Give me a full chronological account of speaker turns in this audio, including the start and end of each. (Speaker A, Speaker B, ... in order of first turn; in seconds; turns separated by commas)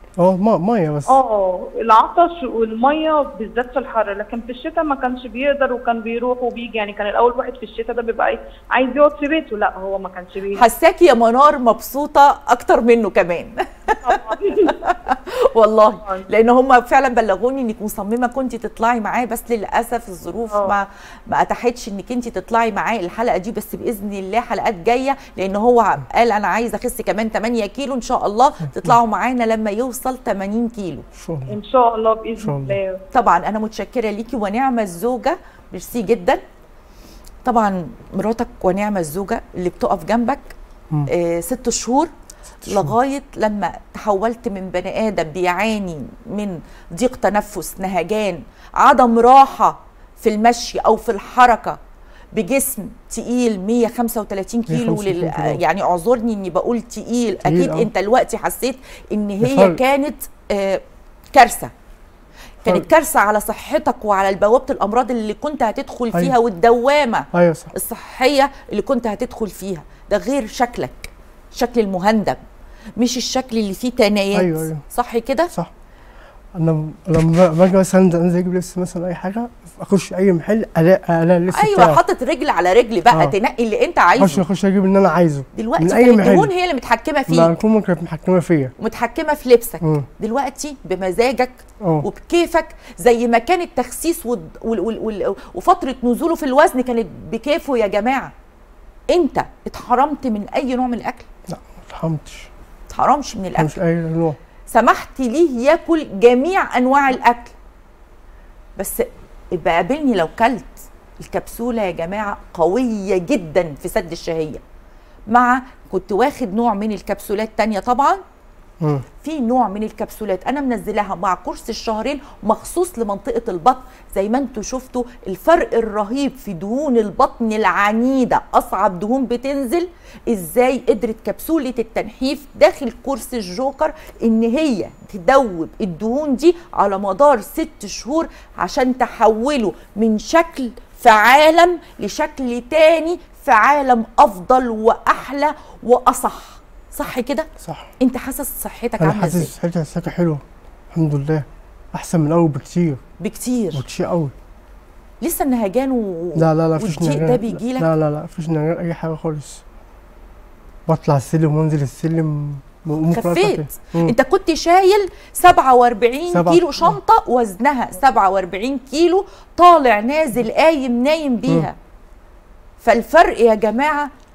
Speaker A: 0.2-1.2, Speaker B: 1.1-10.7, Speaker C: 10.5-31.1, Speaker B: 14.0-14.8, Speaker B: 16.0-16.3, Speaker A: 31.2-31.6, Speaker B: 31.5-33.0, Speaker A: 32.4-32.8, Speaker C: 33.1-36.4, Speaker C: 37.5-40.5, Speaker C: 41.1-42.1, Speaker C: 42.6-51.8, Speaker A: 42.6-43.0, Speaker C: 52.3-60.8, Speaker A: 54.7-55.6, Speaker A: 57.4-57.9, Speaker A: 59.4-59.8, Speaker C: 61.3-61.7, Speaker C: 62.6-72.4, Speaker A: 67.3-67.7, Speaker C: 73.0-75.5, Speaker A: 74.3-74.8, Speaker A: 76.6-82.0, Speaker C: 81.5-84.5, Speaker A: 84.2-86.5, Speaker C: 85.5-87.5, Speaker A: 87.3-88.7, Speaker C: 88.8-98.3, Speaker C: 99.1-101.3, Speaker A: 101.5-102.5, Speaker C: 102.9-103.8, Speaker A: 103.6-104.4, Speaker C: 104.7-107.5, Speaker C: 108.8-114.6, Speaker C: 115.3-118.2, Speaker C: 119.2-147.5, Speaker A: 147.6-147.9, Speaker C: 148.0-149.5, Speaker A: 149.0-153.0, Speaker C: 153.2-153.8, Speaker A: 153.7-154.3, Speaker C: 155.2-157.9, Speaker A: 156.4-159.6, Speaker A: 160.9-164.1, Speaker C: 163.1-171.8, Speaker A: 166.3-167.0, Speaker C: 172.8-174.1